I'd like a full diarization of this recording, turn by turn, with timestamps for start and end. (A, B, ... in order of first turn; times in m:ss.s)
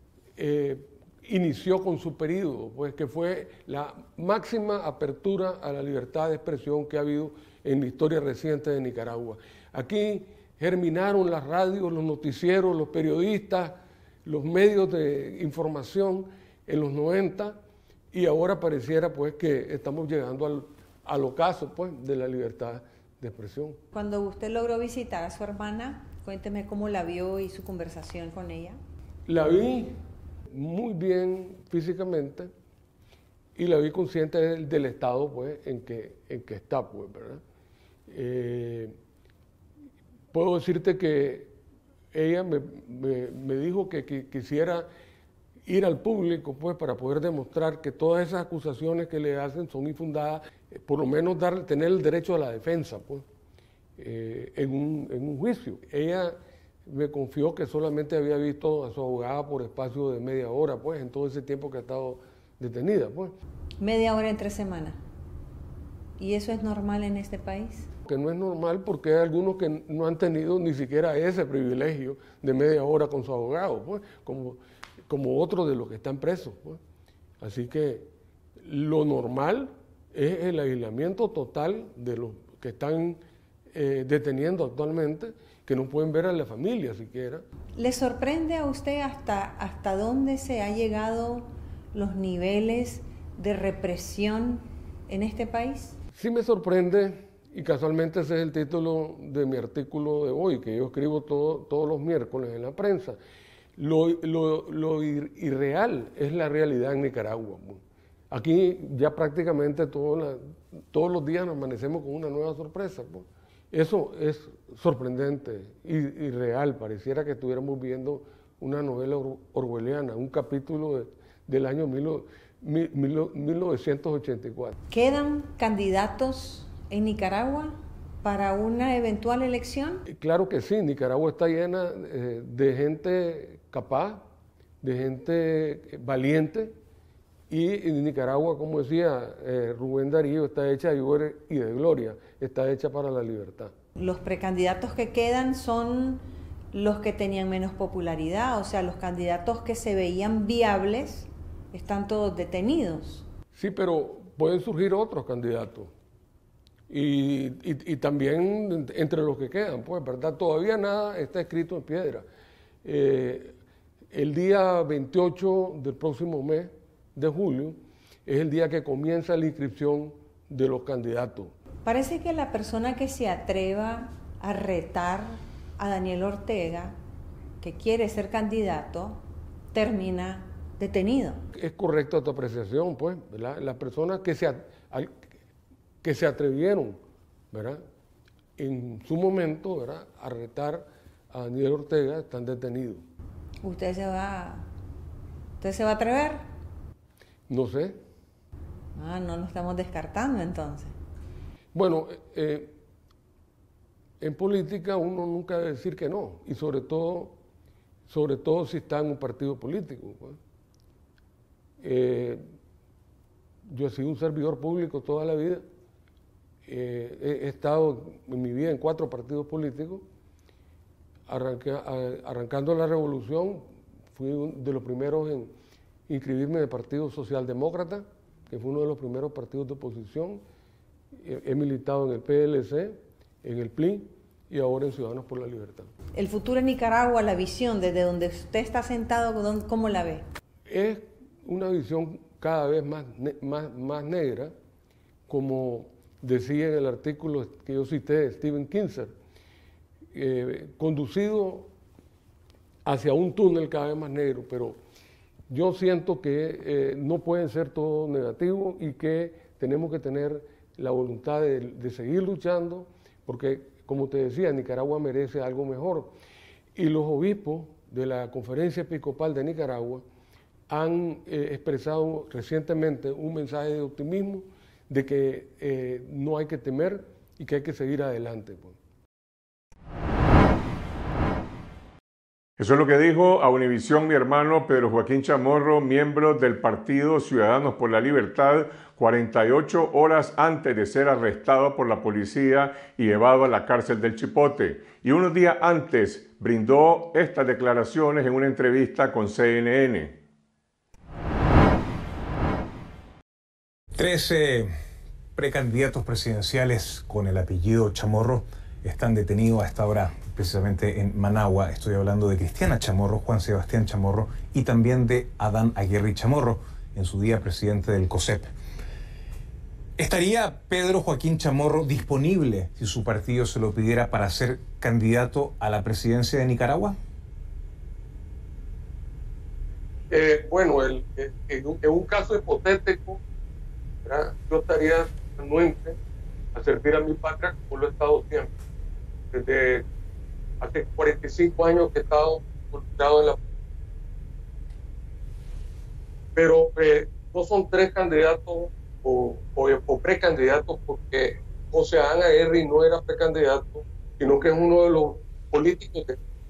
0:00.4-0:17.6 A
0:18.1-0:23.8 A
0:23.9-0:28.8 B
0:29.3-0:29.9 A
0:30.5-0:32.5 A
0:33.6-0:37.4 A
0:38.1-0:39.0 A
0:40.3-0:41.6 A
0:42.1-0:44.9 A
0:45.6-0:53.2 A
0:54.0-0:56.3 A
0:56.8-1:03.3 A
1:03.8-1:05.0 B
1:06.2-1:07.9 B
1:08.0-1:16.8 A
1:17.4-1:18.1 A
1:18.6-1:23.2 A
1:23.7-1:27.4 A
1:27.7-1:36.0 B
1:36.1-1:43.2 A
1:43.8-2:04.7 A
2:04.9-2:10.0 B
2:10.1-2:14.2 A
2:14.8-2:16.7 A
2:17.5-2:23.7 A
2:24.0-2:33.2 B
2:33.5-2:35.9 A
2:36.9-2:42.2 A
2:42.8-2:43.6 A
2:44.1-2:51.5 A
2:51.8-2:57.0 B
2:57.6-3:01.4 B
3:01.5-3:05.2 A
3:06.0-3:07.0 A
3:07.5-3:07.8 A
3:08.6-3:13.0 A
3:13.6-3:14.6 B
3:15.6-3:16.4 B
3:17.5-3:18.0 A
3:18.9-3:20.9 B
3:21.7-3:22.7 A
3:24.2-3:27.4 A
3:28.1-3:30.4 A
3:31.8-3:32.4 A
3:33.6-3:35.6 A
3:36.6-3:40.0 A
3:41.3-3:45.5 A
3:46.1-3:50.4 A
3:51.2-3:55.9 A
3:56.1-4:00.2 B
4:00.7-4:04.5 A
4:05.3-4:09.1 A
4:10.1-4:11.7 A
4:12.8-4:14.8 A
4:15.5-4:26.2 A
4:26.8-4:30.0 A
4:30.7-4:38.8 A
4:42.6-5:00.2 C
5:03.9-5:04.7 D
5:05.4-5:18.5 D
5:20.0-5:27.0 D
5:30.1-5:33.2 A
5:34.0-5:36.0 A
5:36.5-5:38.5 A
5:39.3-5:39.8 A
5:40.6-5:43.4 A
5:46.3-5:56.2 A